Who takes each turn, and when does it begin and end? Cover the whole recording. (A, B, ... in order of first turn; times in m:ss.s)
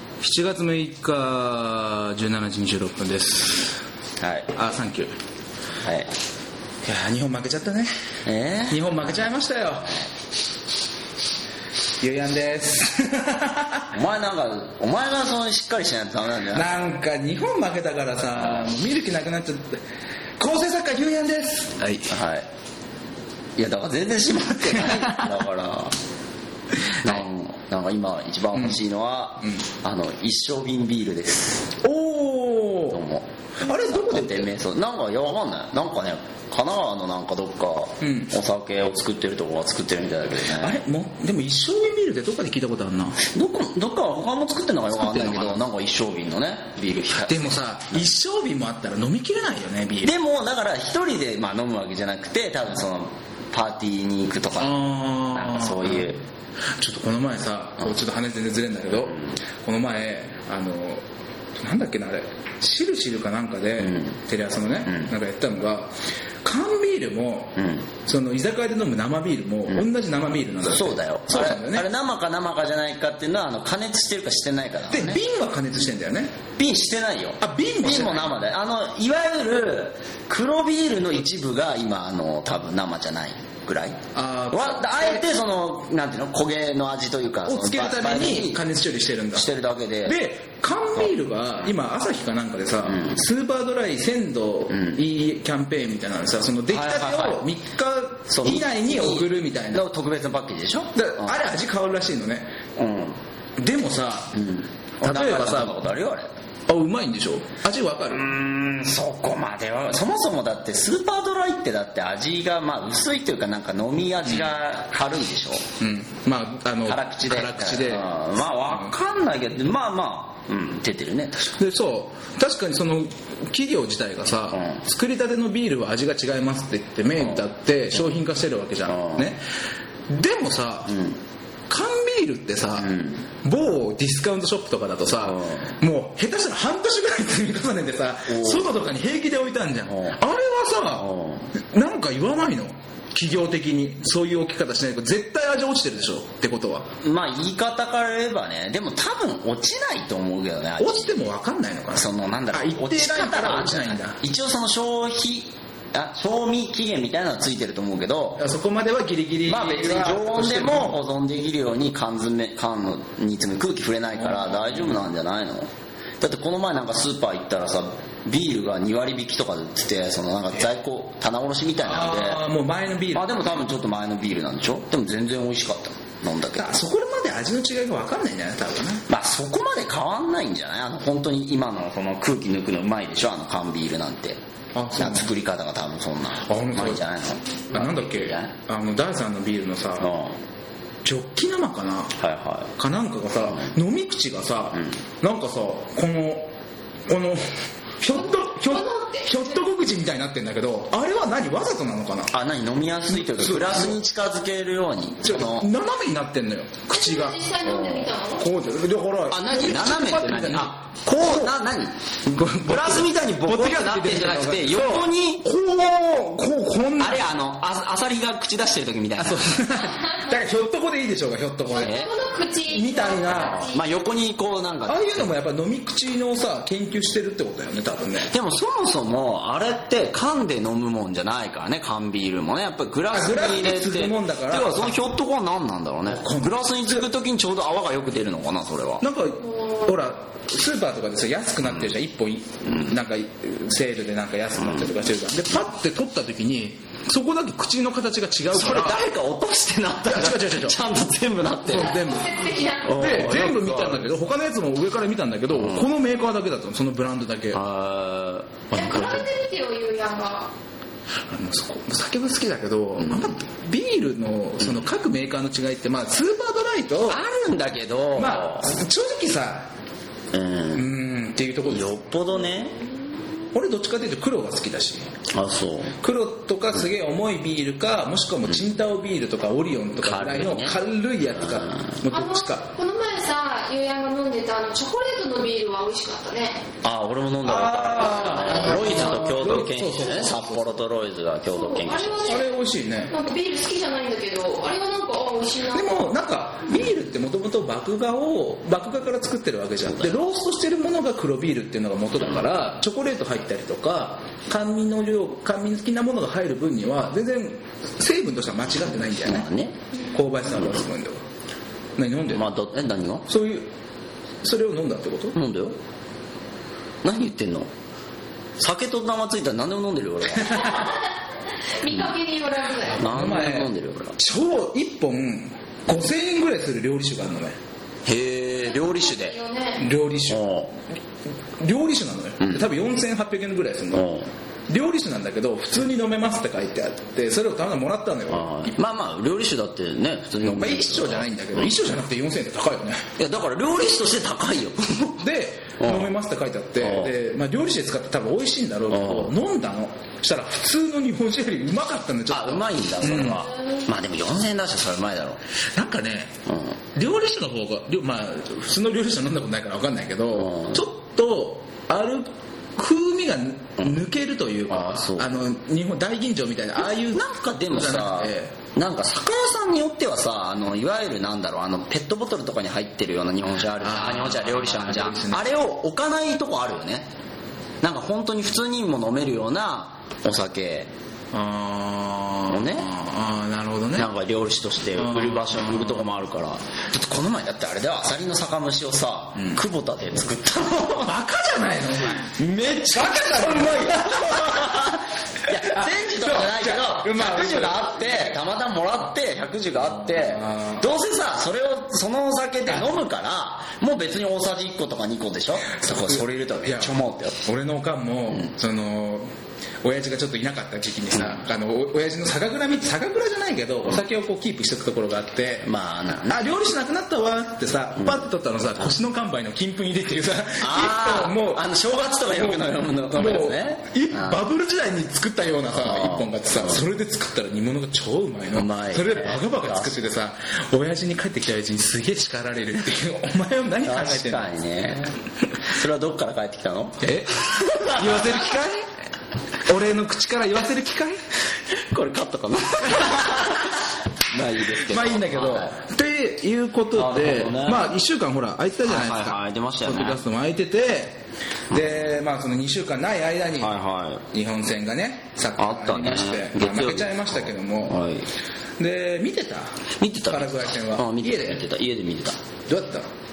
0:00.2-0:03.8 A
0:04.2-0:04.5 B
0:04.5-0:05.1 A
0:05.8-0:06.1 B
0:06.8-0:07.9 A
0:08.2-0:09.0 B
0:08.7-0:10.0 A
0:12.0-0:13.9 A
0:13.9-0:16.7 B
0:16.4-0:19.8 A
0:20.4-0:22.1 A
0:22.1-0:22.5 B
0:23.6-0:26.0 B
0:24.8-0:25.2 A
0:27.0-0:31.7 B
0:31.8-0:33.0 A
0:32.9-0:40.8 B
0:33.6-0:34.5 A
0:38.0-0:38.3 A
0:40.5-0:43.2 A
0:43.2-0:47.6 B
0:44.9-0:45.6 A
0:47.2-0:50.2 A
0:50.0-0:56.2 B
0:54.6-0:56.1 A
0:56.7-1:01.0 A
1:01.6-1:11.9 A
1:03.8-1:04.2 B
1:04.8-1:05.1 B
1:07.6-1:07.9 B
1:10.6-1:15.2 B
1:14.9-1:16.4 A
1:16.6-1:28.6 B
1:17.4-1:18.4 A
1:24.1-1:25.2 A
1:27.4-1:29.5 A
1:29.3-1:30.2 B
1:30.0-1:39.9 A
1:32.8-1:33.2 B
1:34.7-1:35.0 B
1:36.7-1:37.4 B
1:38.3-1:41.4 B
1:40.9-1:42.5 A
1:42.8-1:43.2 B
1:43.6-1:44.4 A
1:44.3-1:46.3 B
1:45.0-1:45.8 A
1:46.7-1:48.3 A
1:48.1-1:55.7 B
1:55.8-1:58.9 A
1:56.8-2:01.5 B
2:01.6-2:09.4 A
2:04.5-2:04.8 B
2:08.9-2:09.3 B
2:10.1-2:10.9 A
2:10.9-2:11.2 B
2:11.7-2:26.9 A
2:12.8-2:13.3 B
2:15.2-2:15.7 B
2:18.3-2:18.7 B
2:19.9-2:20.2 B
2:21.0-2:21.5 B
2:27.0-2:31.2 B
2:30.8-2:34.2 A
2:31.9-2:38.4 B
2:38.4-2:41.0 A
2:39.4-2:45.7 B
2:44.2-2:45.0 A
2:46.2-2:52.4 B
2:51.8-2:53.5 A
2:53.1-2:56.8 B
2:56.5-2:59.0 A
2:59.1-3:04.4 B
3:04.7-3:05.3 A
3:05.0-3:08.5 B
3:06.4-3:07.0 A
3:07.7-3:10.1 A
3:10.0-3:10.4 B
3:11.0-3:12.2 A
3:12.2-3:12.7 B
3:12.8-3:16.5 A
3:17.1-3:22.3 A
3:18.5-3:19.5 C
3:22.3-3:25.7 B
3:23.1-3:24.0 A
3:25.2-3:27.5 A
3:26.9-3:28.5 C
3:27.6-3:28.1 B
3:28.4-3:31.6 A
3:29.3-3:35.5 B
3:32.2-3:37.3 A
3:37.0-3:39.8 B
3:39.2-3:42.1 A
3:41.7-3:43.8 C
3:41.8-3:42.1 B
3:42.7-3:43.6 A
3:43.3-3:45.2 B
3:44.9-3:48.3 A
3:48.3-3:59.1 B
3:53.1-3:55.0 A
3:56.1-3:57.0 A
3:59.0-4:09.0 A
4:02.6-4:02.9 B
4:08.5-4:12.0 B
4:10.0-4:10.8 A
4:11.6-4:17.6 A
4:11.9-4:13.1 C
4:12.8-4:14.0 B
4:15.5-4:15.8 B
4:17.5-4:19.2 B
4:18.7-4:19.3 A
4:18.7-4:20.5 C
4:21.3-4:27.2 A
4:23.0-4:23.3 B
4:27.1-4:28.8 B
4:28.1-4:29.7 A
4:30.3-4:30.9 B
4:30.7-4:31.9 A
4:31.7-4:32.8 B
4:33.5-4:35.1 A
4:35.3-4:36.0 B
4:36.0-4:42.7 A
4:40.0-4:40.8 B
4:41.4-4:42.0 B
4:42.1-4:46.6 C
4:46.8-4:52.4 B
4:47.4-4:50.8 A
4:51.5-4:52.5 C
4:52.2-4:53.1 A
4:53.1-4:56.0 C
4:55.7-5:09.5 A
5:09.2-5:09.8 B
5:10.1-5:11.2 A
5:12.0-5:12.5 A
5:12.3-5:13.3 B
5:13.3-5:13.7 A
5:14.4-5:15.3 A
5:15.3-5:15.8 B
5:17.0-5:17.7 B
5:18.6-5:20.9 B
5:20.6-5:21.0 C
5:21.8-5:23.1 C
5:21.9-5:22.2 B
5:22.9-5:24.2 B
5:23.0-5:27.6 A
5:28.0-5:29.4 B
5:28.6-5:29.9 C
5:29.8-5:30.5 A
5:30.3-5:30.7 B
5:31.6-5:34.1 A
5:32.4-5:32.6 B
5:33.9-5:34.3 B
5:34.7-5:38.7 A
5:38.3-5:41.7 B
5:40.4-5:43.0 A
5:43.2-5:45.2 B
5:45.2-5:53.5 A
5:45.8-5:46.1 B
5:46.8-5:47.1 B
5:48.9-5:49.3 B
5:52.3-5:55.4 B
5:55.7-5:56.4 A
5:56.4-5:56.8 B
5:56.9-6:08.5 A
6:00.4-6:00.8 B
6:04.7-6:05.4 B
6:06.8-6:17.1 B
6:13.8-6:15.5 A
6:17.8-6:20.9 B
6:21.3-6:24.1 A
6:22.5-6:22.9 B
6:23.9-6:31.2 B
6:24.9-6:26.0 A
6:31.0-6:32.4 A
6:32.3-6:47.4 B
6:32.9-6:35.0 A
6:35.5-6:38.4 A
6:40.0-6:40.9 A
6:45.7-6:46.9 A
6:47.4-6:49.3 A
6:49.8-6:55.7 A
6:55.6-6:56.5 B
6:56.3-7:01.7 A
7:00.6-7:04.4 B
7:02.3-7:14.5 A
7:05.7-7:06.8 B
7:08.5-7:10.0 B
7:13.8-7:18.4 B
7:17.0-7:18.9 A
7:19.6-7:21.2 A
7:21.7-7:25.7 B
7:23.0-7:23.5 A
7:24.7-7:33.8 A
7:26.9-7:27.9 B
7:28.8-7:30.2 B
7:33.6-7:34.2 B
7:34.3-7:38.0 A
7:35.6-7:38.3 B
7:38.8-7:41.6 A
7:40.0-7:42.4 B
7:42.7-7:43.1 A